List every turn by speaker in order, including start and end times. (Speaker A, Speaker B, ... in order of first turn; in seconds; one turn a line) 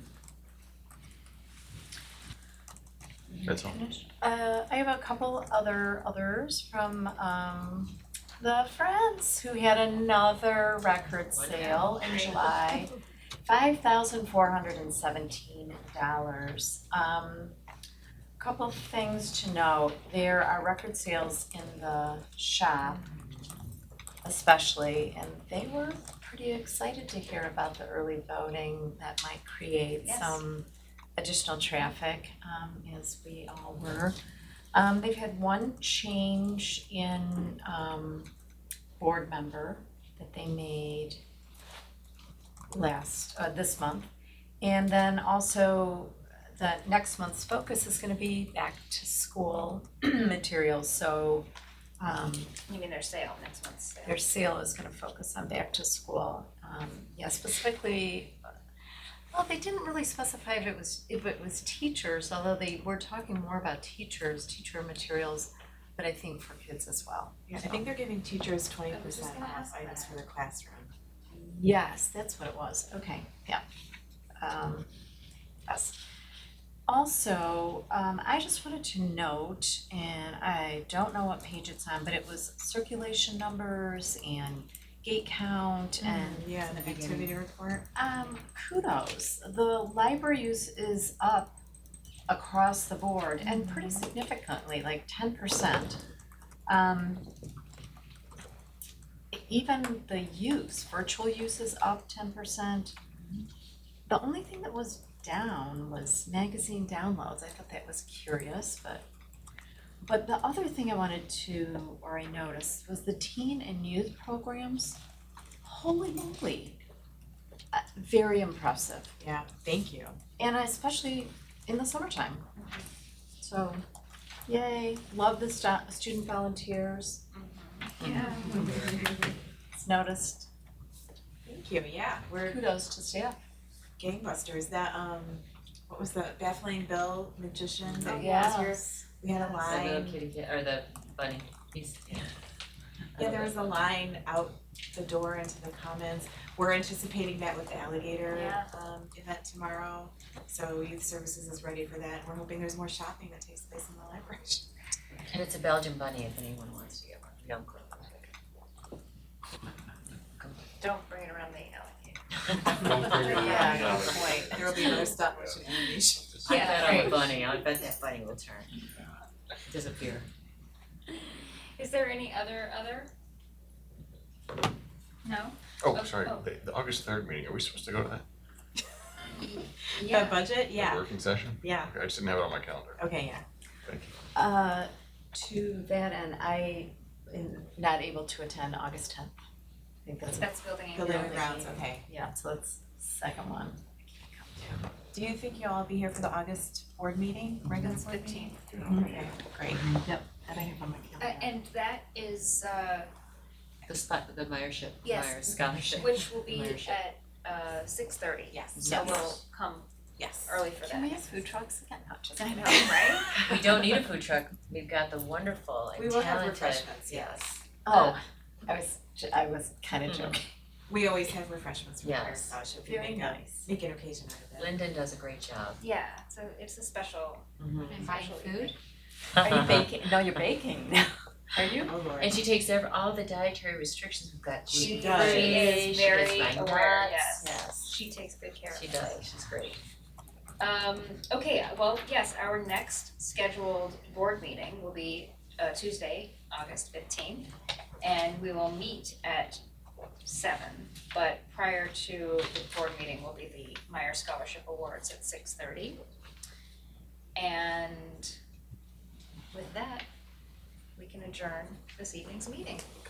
Speaker A: 3.5-3.8
Speaker B: 3.5-12.9
Speaker C: 11.3-12.3
Speaker D: 12.0-12.4
Speaker B: 13.4-17.6
Speaker B: 18.4-23.1
Speaker B: 24.2-34.2
Speaker E: 30.0-30.4
Speaker B: 34.7-38.3
Speaker B: 39.0-41.2
Speaker B: 42.7-44.1
Speaker B: 44.6-51.5
Speaker B: 52.0-52.5
Speaker E: 52.7-54.2
Speaker B: 54.1-58.4
Speaker B: 59.3-67.9
Speaker D: 67.5-70.9
Speaker E: 68.9-70.2
Speaker B: 71.3-73.6
Speaker B: 74.4-74.9
Speaker B: 75.7-76.0
Speaker B: 76.9-86.5
Speaker D: 86.0-87.9
Speaker C: 86.7-87.3
Speaker B: 88.0-91.6
Speaker B: 92.3-96.0
Speaker B: 96.7-97.3
Speaker B: 99.3-103.0
Speaker B: 104.1-109.0
Speaker B: 110.0-115.0
Speaker B: 115.6-116.8
Speaker B: 117.7-119.1
Speaker D: 119.2-120.2
Speaker B: 120.4-122.5
Speaker E: 122.6-122.9
Speaker B: 123.4-123.8
Speaker B: 124.5-127.2
Speaker E: 127.3-129.1
Speaker C: 128.0-128.7
Speaker B: 128.0-128.9
Speaker D: 128.6-129.0
Speaker B: 129.8-130.5
Speaker D: 131.5-132.6
Speaker B: 132.4-133.4
Speaker D: 134.0-140.2
Speaker C: 137.8-138.2
Speaker E: 138.1-138.7
Speaker B: 138.1-138.9
Speaker C: 139.4-142.3
Speaker C: 143.2-143.7
Speaker D: 143.2-154.7
Speaker E: 148.3-148.7
Speaker C: 155.3-158.2
Speaker E: 160.8-164.2
Speaker C: 162.5-164.0
Speaker A: 162.8-165.6
Speaker B: 163.3-164.6
Speaker D: 163.5-167.3
Speaker E: 164.7-165.1
Speaker A: 166.3-166.6
Speaker E: 166.4-167.3
Speaker C: 166.4-168.8
Speaker C: 169.7-170.3
Speaker E: 171.3-173.1
Speaker E: 175.2-176.5
Speaker A: 175.8-178.2
Speaker E: 180.0-180.5
Speaker D: 180.0-181.1
Speaker A: 180.7-183.0
Speaker D: 181.6-181.9
Speaker D: 183.0-183.4
Speaker A: 183.9-184.1
Speaker B: 184.3-189.4
Speaker B: 190.0-194.8
Speaker E: 190.4-191.6
Speaker D: 190.9-192.1
Speaker D: 195.1-199.9
Speaker E: 197.9-199.1
Speaker B: 198.5-201.6
Speaker E: 201.2-203.1
Speaker C: 203.9-207.0
Speaker E: 205.0-209.9
Speaker B: 205.7-206.1
Speaker D: 208.5-209.3
Speaker C: 208.8-209.2
Speaker B: 208.8-209.2
Speaker D: 210.2-210.6
Speaker E: 210.4-211.5
Speaker B: 210.8-213.6
Speaker D: 212.4-213.5
Speaker C: 213.4-217.6
Speaker D: 215.9-217.5
Speaker B: 217.8-220.5
Speaker E: 217.9-218.2
Speaker C: 220.1-220.4
Speaker D: 220.9-224.7
Speaker C: 222.0-222.6
Speaker B: 222.8-223.7
Speaker C: 224.6-225.8
Speaker E: 225.8-228.8
Speaker C: 227.6-228.3
Speaker B: 227.9-228.7
Speaker C: 229.4-229.9
Speaker B: 229.4-231.9
Speaker D: 231.8-232.4
Speaker C: 232.2-237.8
Speaker E: 234.7-239.2
Speaker D: 234.7-235.7
Speaker B: 237.4-237.9
Speaker C: 238.7-239.8
Speaker E: 240.6-249.6
Speaker E: 250.2-256.0
Speaker E: 257.4-258.3
Speaker E: 259.5-260.1
Speaker E: 261.0-262.9